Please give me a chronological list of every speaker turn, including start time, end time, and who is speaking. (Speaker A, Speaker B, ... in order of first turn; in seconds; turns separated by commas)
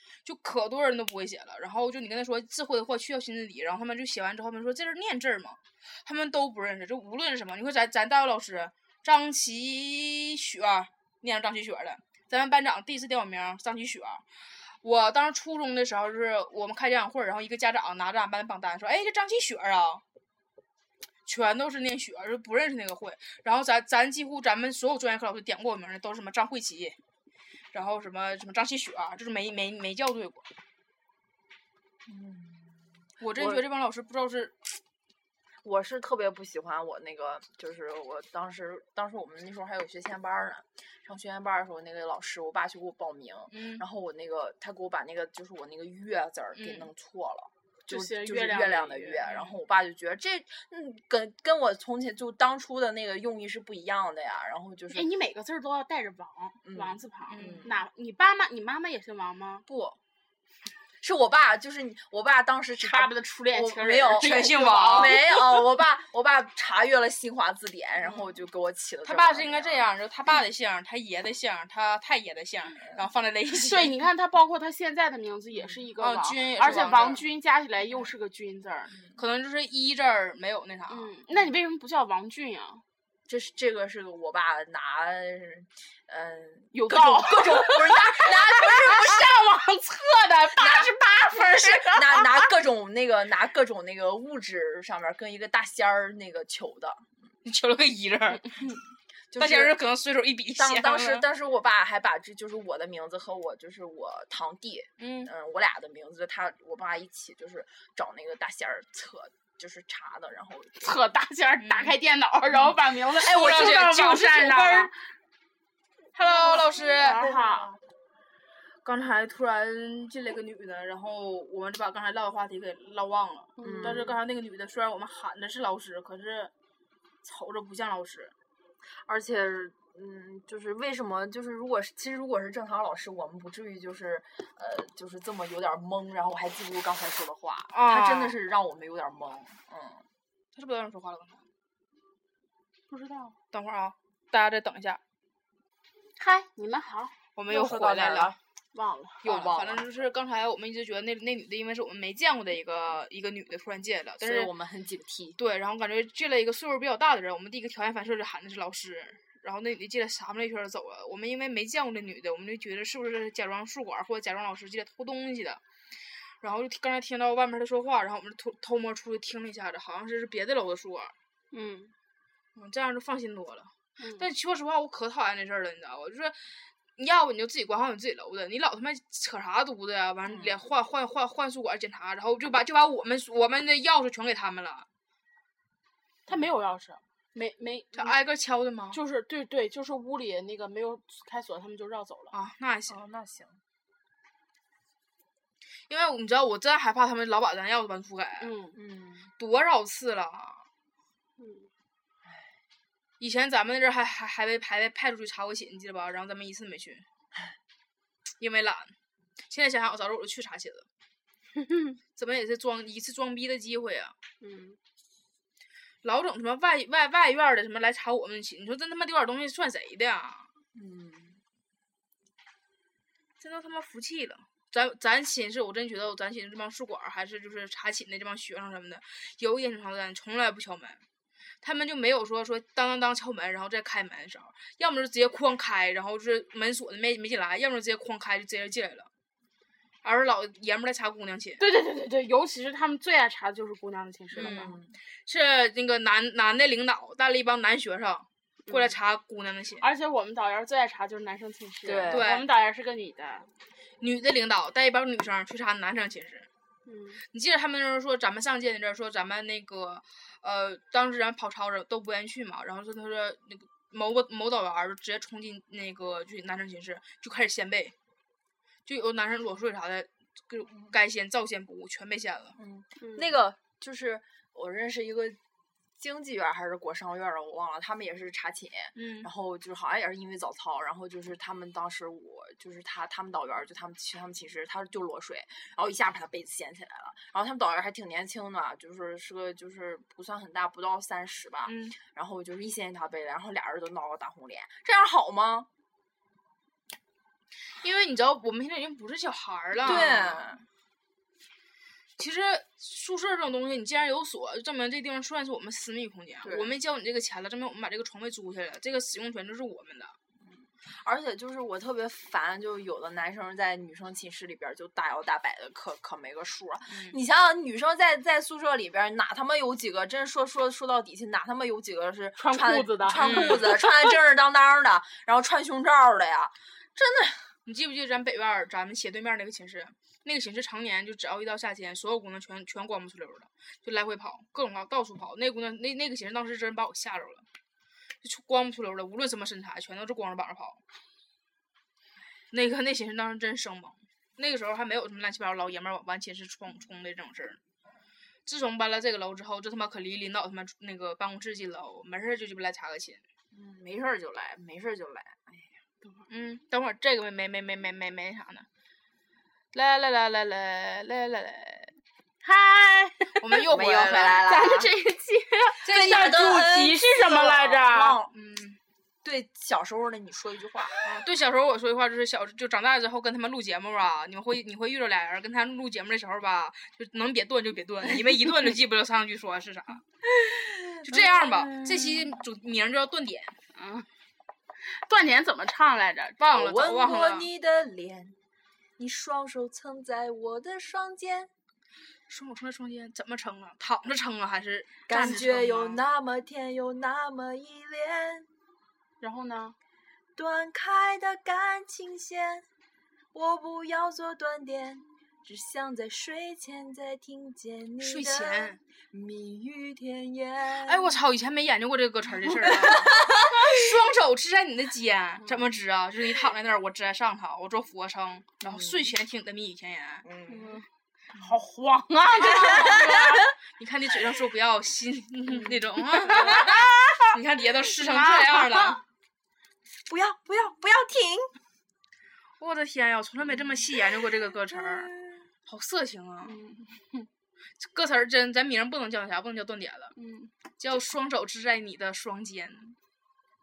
Speaker A: 0.2-14.2, Speaker A: 14.8-20.0, Speaker A: 21.3-27.0, Speaker A: 27.7-30.5, Speaker B: 32.1-33.7, Speaker A: 33.2-34.8, Speaker B: 35.6-55.1, Speaker A: 43.5-43.8, Speaker A: 46.6-46.9, Speaker C: 47.9-49.2, Speaker A: 49.3-49.5, Speaker C: 54.9-59.6, Speaker B: 56.6-57.7, Speaker A: 57.3-57.7, Speaker B: 59.7-60.0, Speaker B: 61.0-69.9, Speaker C: 62.8-65.4, Speaker A: 64.2-65.2, Speaker A: 69.0-73.9, Speaker C: 73.5-79.0, Speaker A: 76.0-77.2, Speaker A: 79.2-81.1, Speaker C: 80.9-82.8, Speaker B: 83.3-89.4, Speaker C: 86.7-92.5, Speaker B: 90.6-97.1, Speaker A: 97.5-98.6, Speaker B: 99.3-99.8, Speaker A: 99.4-101.3, Speaker B: 100.6-111.0, Speaker A: 105.0-105.3, Speaker C: 110.8-114.9, Speaker A: 111.6-112.0, Speaker A: 112.5-114.9, Speaker A: 116.2-117.3, Speaker C: 116.5-117.8, Speaker A: 118.8-126.5, Speaker C: 123.6-124.2, Speaker B: 123.6-124.2, Speaker A: 127.2-128.3, Speaker B: 128.8-140.1, Speaker A: 137.7-138.4, Speaker A: 140.6-141.4, Speaker C: 142.9-143.4, Speaker A: 143.5-145.0, Speaker C: 146.2-147.2, Speaker A: 147.4-148.4, Speaker B: 147.5-148.4, Speaker C: 148.7-149.2, Speaker A: 149.2-154.5, Speaker B: 149.2-149.8, Speaker B: 154.2-155.4, Speaker A: 155.4-165.6, Speaker A: 166.4-171.1, Speaker C: 171.5-171.9, Speaker A: 172.6-184.9, Speaker C: 174.0-174.3, Speaker B: 180.3-180.6, Speaker C: 186.3-188.2, Speaker A: 187.9-189.0, Speaker C: 188.9-192.3, Speaker A: 192.3-193.0, Speaker B: 192.9-193.6, Speaker A: 195.9-198.5, Speaker C: 198.4-198.8, Speaker B: 198.7-199.3, Speaker A: 199.4-200.7, Speaker C: 201.4-201.7, Speaker A: 203.2-207.1, Speaker A: 208.4-208.9, Speaker A: 209.5-210.9, Speaker A: 212.2-214.2, Speaker C: 214.4-214.8, Speaker A: 216.0-220.5, Speaker B: 220.7-221.4, Speaker A: 223.4-231.0, Speaker A: 231.6-239.1, Speaker A: 240.0-241.7, Speaker C: 241.6-244.7, Speaker B: 244.3-245.0, Speaker A: 244.4-249.9, Speaker C: 248.7-248.9, Speaker C: 249.8-253.5, Speaker B: 251.8-252.3, Speaker A: 252.1-252.4, Speaker A: 254.0-256.5, Speaker C: 256.9-257.2, Speaker A: 257.3-267.9, Speaker A: 268.9-272.6, Speaker B: 272.6-275.4, Speaker C: 273.0-273.4, Speaker B: 276.0-295.7, Speaker A: 279.0-279.3, Speaker A: 291.7-292.0, Speaker A: 297.8-300.5, Speaker B: 299.8-300.7, Speaker A: 302.2-310.2, Speaker B: 306.4-306.7, Speaker B: 310.4-327.5, Speaker A: 316.9-317.2, Speaker C: 322.4-323.8, Speaker A: 323.1-323.8, Speaker A: 327.7-337.5, Speaker A: 338.2-340.8, Speaker A: 342.5-347.6, Speaker A: 348.5-353.2, Speaker B: 353.5-355.7, Speaker A: 356.3-358.7, Speaker A: 359.7-361.9, Speaker C: 362.4-363.4, Speaker A: 363.4-364.5, Speaker B: 363.7-364.9, Speaker C: 364.4-368.2, Speaker A: 365.8-366.5, Speaker B: 365.9-368.3, Speaker A: 368.3-368.8, Speaker B: 369.2-370.9, Speaker A: 371.0-380.0, Speaker B: 380.4-382.3, Speaker A: 381.0-383.6, Speaker C: 383.8-384.1, Speaker C: 384.8-386.4, Speaker A: 386.4-387.5, Speaker B: 386.5-388.4, Speaker B: 389.0-391.5, Speaker A: 392.3-396.0, Speaker B: 395.1-398.5, Speaker C: 399.2-399.8, Speaker B: 400.4-402.7, Speaker B: 403.3-411.2, Speaker A: 408.0-408.8, Speaker A: 410.8-420.3, Speaker B: 412.6-413.6, Speaker B: 418.6-419.1, Speaker B: 420.2-420.8, Speaker C: 420.5-423.5, Speaker A: 422.4-429.0, Speaker B: 422.6-423.1, Speaker C: 425.5-425.8, Speaker C: 426.3-426.9, Speaker C: 428.0-429.0, Speaker B: 430.1-431.5, Speaker A: 432.6-435.1, Speaker B: 434.8-435.4, Speaker A: 435.6-436.6, Speaker C: 436.4-437.3, Speaker A: 437.8-440.1, Speaker C: 440.2-440.5, Speaker A: 440.8-443.0